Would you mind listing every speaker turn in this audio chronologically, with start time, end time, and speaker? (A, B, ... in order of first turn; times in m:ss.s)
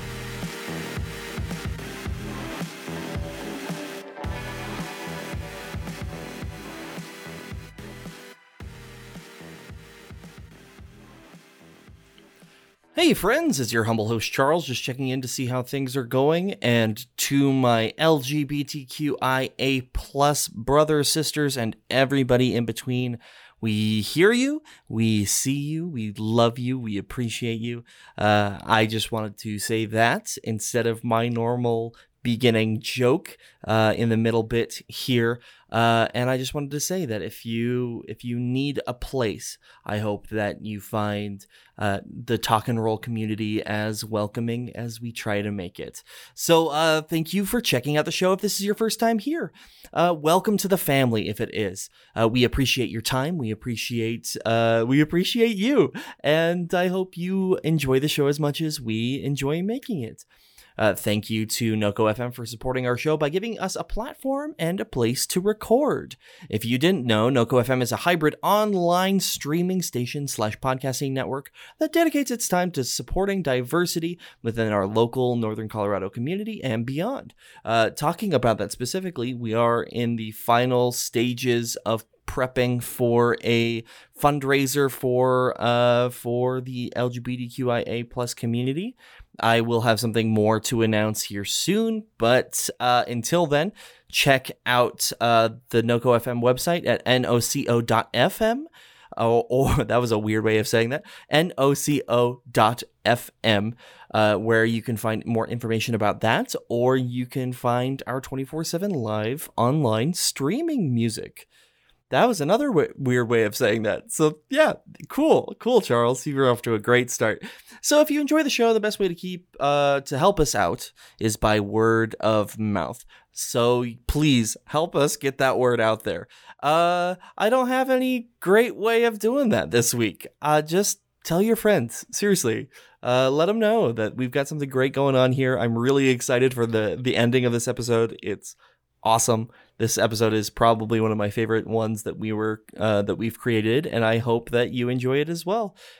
0:12.9-1:00.2 A
1:00.8-1:51.5 A
1:52.1-2:25.8 A